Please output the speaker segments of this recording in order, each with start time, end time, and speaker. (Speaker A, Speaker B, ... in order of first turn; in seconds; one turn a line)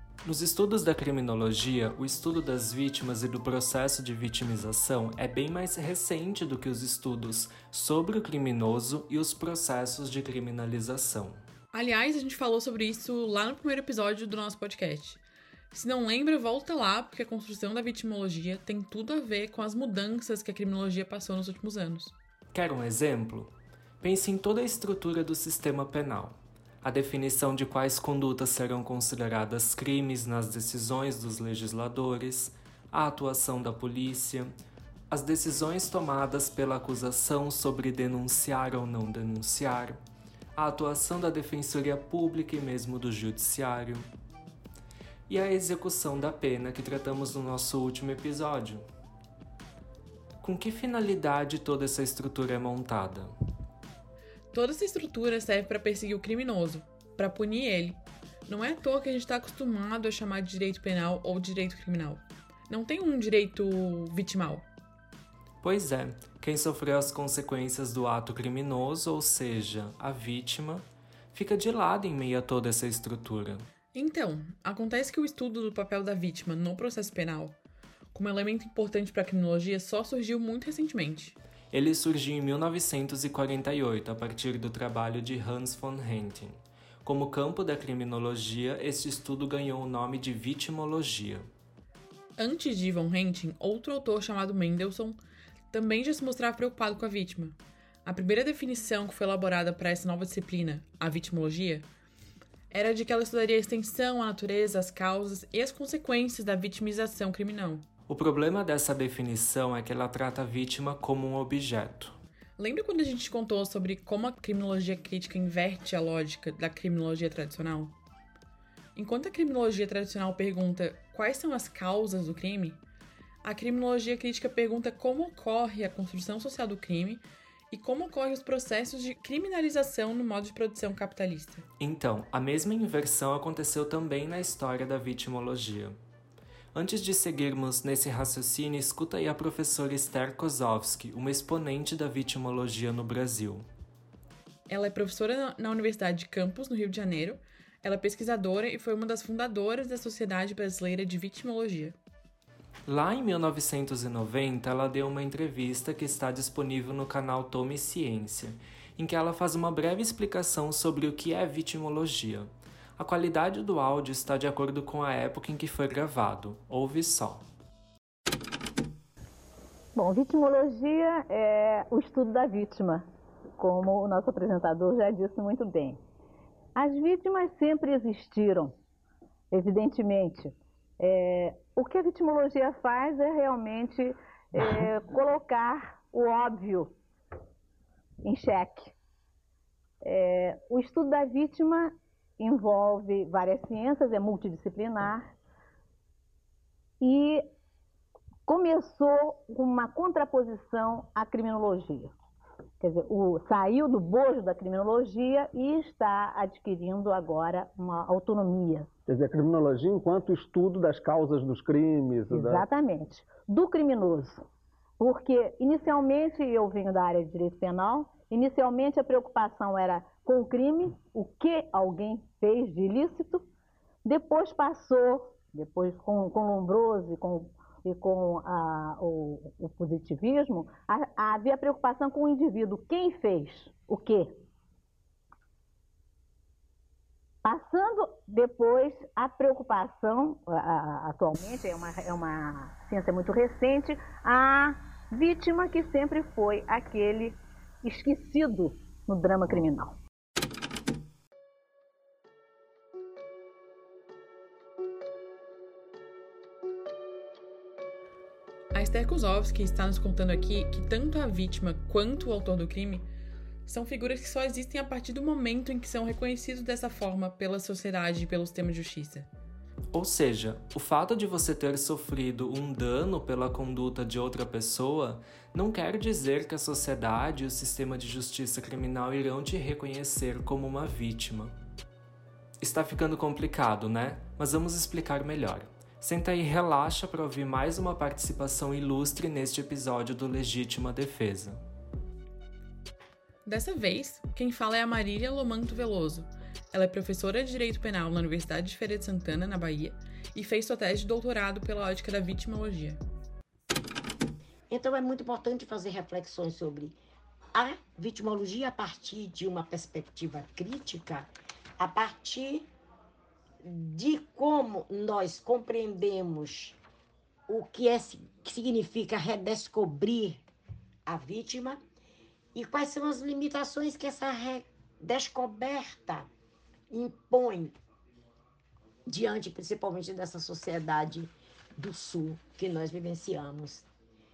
Speaker A: 0.2-11.4
Speaker B: 11.7-22.1
Speaker A: 22.5-34.5
Speaker A: 35.1-40.0
Speaker A: 40.5-44.0
Speaker A: 45.3-48.8
Speaker A: 50.4-53.3
Speaker B: 54.5-64.7
Speaker A: 65.6-73.7
Speaker B: 73.9-77.5
Speaker B: 78.1-81.4
Speaker A: 81.7-91.5
Speaker B: 92.4-95.2
Speaker B: 95.7-101.8
Speaker B: 102.7-107.8
Speaker A: 108.1-112.2
Speaker B: 112.6-117.9
Speaker B: 119.0-122.8
Speaker B: 123.4-131.7
Speaker A: 131.8-135.9
Speaker A: 136.7-143.6
Speaker B: 144.7-151.9
Speaker A: 152.9-167.4
Speaker C: 169.9-173.1
Speaker C: 173.6-176.0
Speaker C: 176.7-178.8
Speaker C: 179.5-186.9
Speaker C: 188.2-188.9
Speaker C: 190.0-195.3
Speaker C: 197.0-197.5
Speaker C: 198.4-202.1
Speaker C: 202.8-208.9
Speaker D: 209.1-212.7
Speaker C: 212.3-214.4
Speaker C: 215.0-223.5
Speaker C: 224.0-234.4
Speaker C: 237.4-250.0
Speaker B: 258.7-263.1
Speaker B: 263.6-269.3
Speaker A: 269.9-281.5
Speaker A: 282.6-291.6
Speaker B: 293.4-303.0
Speaker E: 304.7-307.0
Speaker E: 307.5-312.7
Speaker E: 313.6-316.8
Speaker E: 317.5-320.4
Speaker E: 321.1-321.8
Speaker E: 322.5-326.3
Speaker E: 326.9-327.7
Speaker E: 329.1-333.9